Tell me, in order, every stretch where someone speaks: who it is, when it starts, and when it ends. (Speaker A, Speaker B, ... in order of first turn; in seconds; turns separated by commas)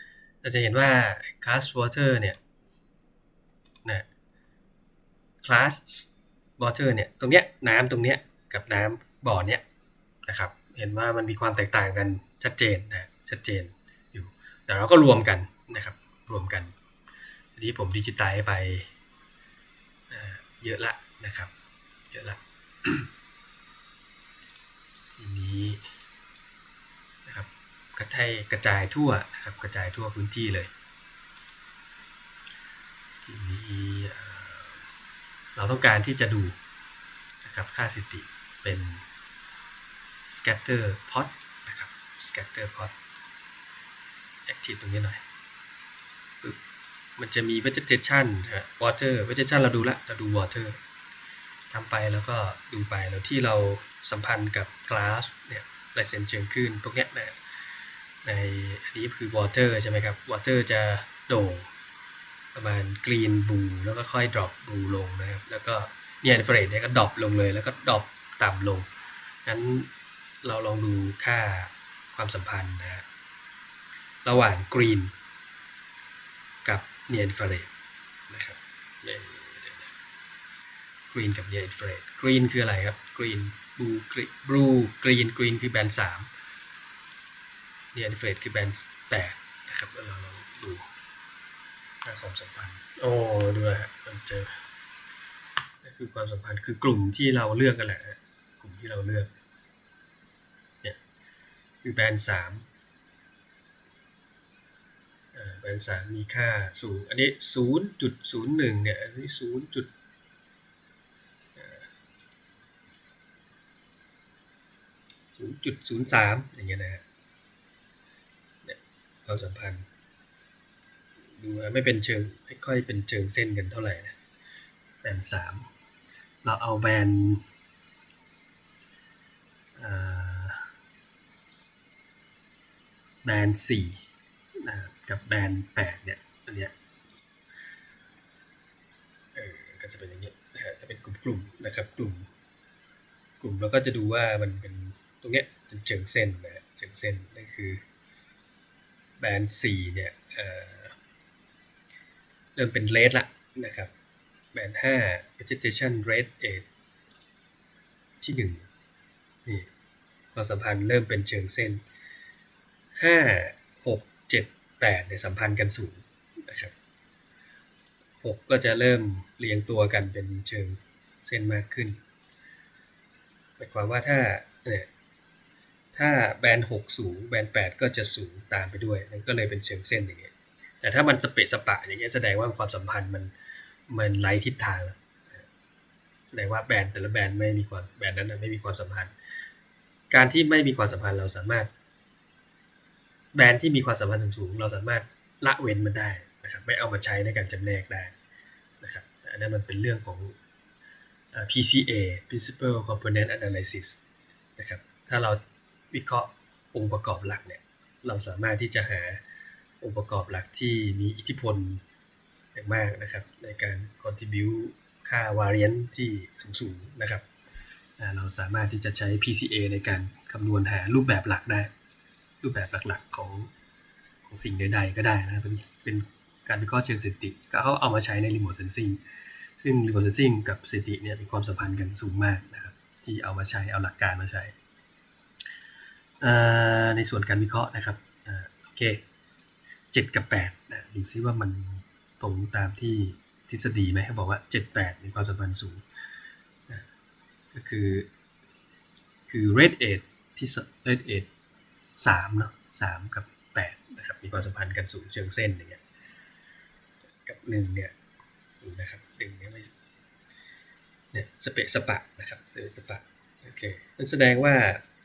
Speaker A: 0.4-2.4, Speaker A: 5.4-6.1, Speaker A: 6.6-9.6, Speaker A: 10.2-16.7, Speaker A: 17.6-18.9, Speaker A: 20.1-21.5, Speaker A: 22.1-23.1, Speaker A: 25.1-25.8, Speaker A: 27.3-30.7, Speaker A: 33.2-34.8, Speaker A: 35.5-36.6, Speaker A: 37.4-39.0, Speaker A: 40.3-42.9, Speaker A: 44.5-45.2, Speaker A: 47.2-50.8, Speaker A: 51.7-57.4, Speaker A: 58.2-61.7, Speaker A: 62.5-68.9, Speaker A: 69.5-69.9, Speaker A: 70.4-73.0, Speaker A: 74.2-75.1, Speaker A: 76.7-77.7, Speaker A: 78.3-79.9, Speaker A: 81.1-86.3, Speaker A: 87.9-90.8, Speaker A: 92.0-94.6, Speaker A: 95.8-99.3, Speaker A: 101.8-102.7, Speaker A: 105.3-109.9, Speaker A: 111.6-111.9, Speaker A: 115.3-117.0, Speaker A: 118.6-119.8, Speaker A: 121.4-124.2, Speaker A: 125.0-125.7, Speaker A: 126.4-127.4, Speaker A: 129.8-130.7, Speaker A: 133.2-134.0, Speaker A: 134.6-136.7, Speaker A: 139.3-142.3, Speaker A: 143.4-147.8, Speaker A: 149.2-151.0, Speaker A: 152.6-153.9, Speaker A: 154.5-156.7, Speaker A: 158.2-158.7, Speaker A: 160.3-161.8, Speaker A: 162.9-166.7, Speaker A: 168.2-172.0, Speaker A: 173.6-174.9, Speaker A: 175.9-183.3, Speaker A: 183.9-185.4, Speaker A: 186.3-189.1, Speaker A: 190.1-191.7, Speaker A: 193.3-198.1, Speaker A: 198.8-200.3, Speaker A: 201.3-204.0, Speaker A: 204.6-205.4, Speaker A: 205.9-209.2, Speaker A: 209.8-211.8, Speaker A: 212.5-217.2, Speaker A: 218.0-221.7, Speaker A: 222.4-223.5, Speaker A: 224.2-229.0, Speaker A: 229.6-234.5, Speaker A: 236.2-239.0, Speaker A: 239.9-245.8, Speaker A: 247.5-248.1, Speaker A: 249.3-251.3, Speaker A: 252.0-255.8, Speaker A: 257.2-257.9, Speaker A: 258.6-259.7, Speaker A: 261.1-264.8